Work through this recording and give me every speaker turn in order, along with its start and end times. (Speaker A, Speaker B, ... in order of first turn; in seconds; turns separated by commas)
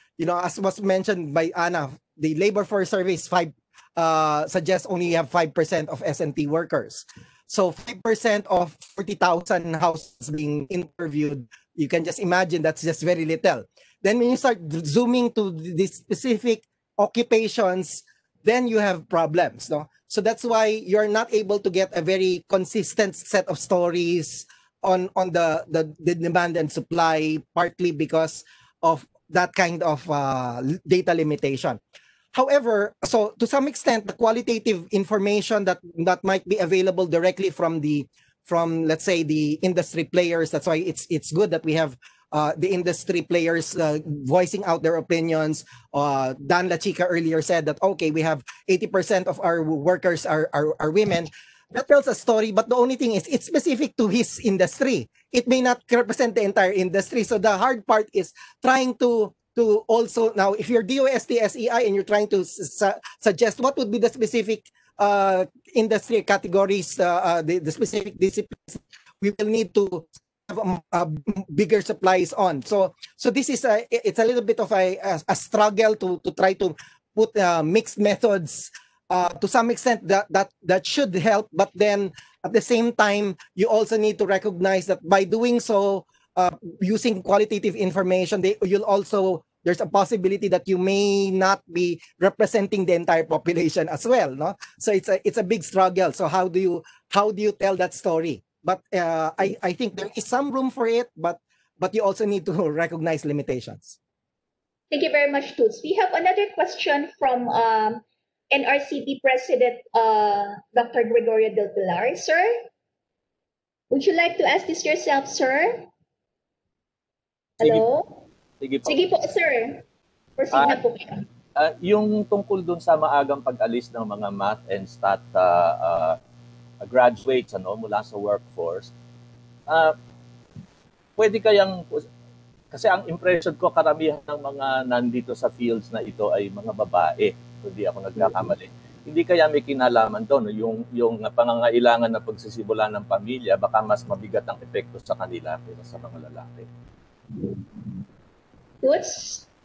Speaker A: 0.2-31.8, Speaker A: 32.3-104.0, Speaker B: 104.9-112.5, Speaker B: 113.9-115.9, Speaker B: 117.6-118.2, Speaker C: 118.6-119.1, Speaker B: 118.8-119.8, Speaker B: 120.4-121.3, Speaker C: 120.5-120.8, Speaker C: 121.6-126.2, Speaker C: 126.8-128.9, Speaker C: 129.7-129.9, Speaker C: 131.2-132.1, Speaker C: 132.7-146.7, Speaker B: 147.3-148.0, Speaker B: 148.8-149.4